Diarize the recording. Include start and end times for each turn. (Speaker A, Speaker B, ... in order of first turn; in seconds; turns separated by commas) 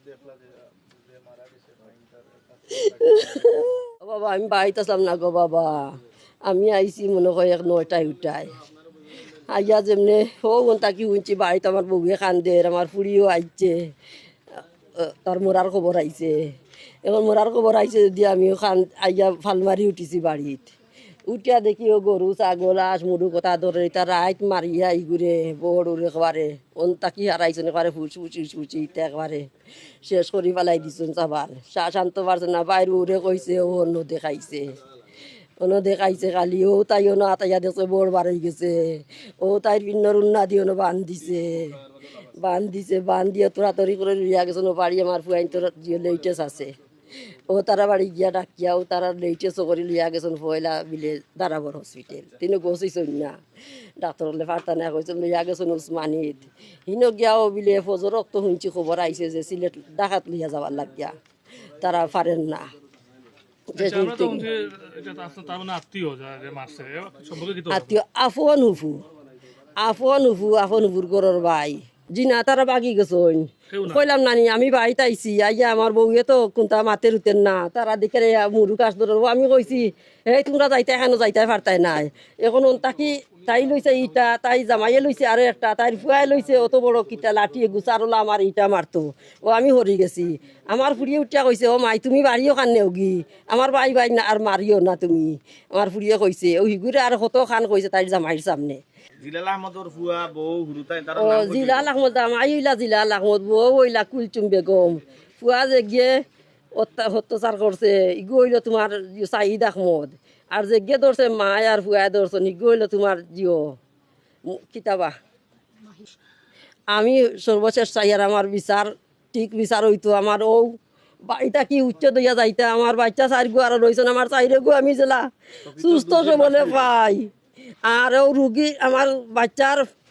Speaker A: 0.2-0.7, Speaker A: 1.3-2.1, Speaker B: 2.7-8.5, Speaker B: 9.5-13.9, Speaker B: 15.0-16.5, Speaker B: 17.1-20.7, Speaker B: 21.3-29.5, Speaker B: 30.0-34.8, Speaker B: 35.6-41.8, Speaker B: 42.3-46.8, Speaker B: 47.5-53.4, Speaker B: 54.0-61.2, Speaker B: 61.8-62.7, Speaker B: 63.7-64.5, Speaker C: 63.8-68.0, Speaker B: 67.7-69.0, Speaker B: 69.8-98.8, Speaker C: 73.7-74.0, Speaker A: 99.2-101.9, Speaker B: 101.2-106.2, Speaker B: 106.8-113.8, Speaker B: 114.5-115.2, Speaker B: 116.9-127.3, Speaker A: 125.7-126.9, Speaker B: 127.8-129.9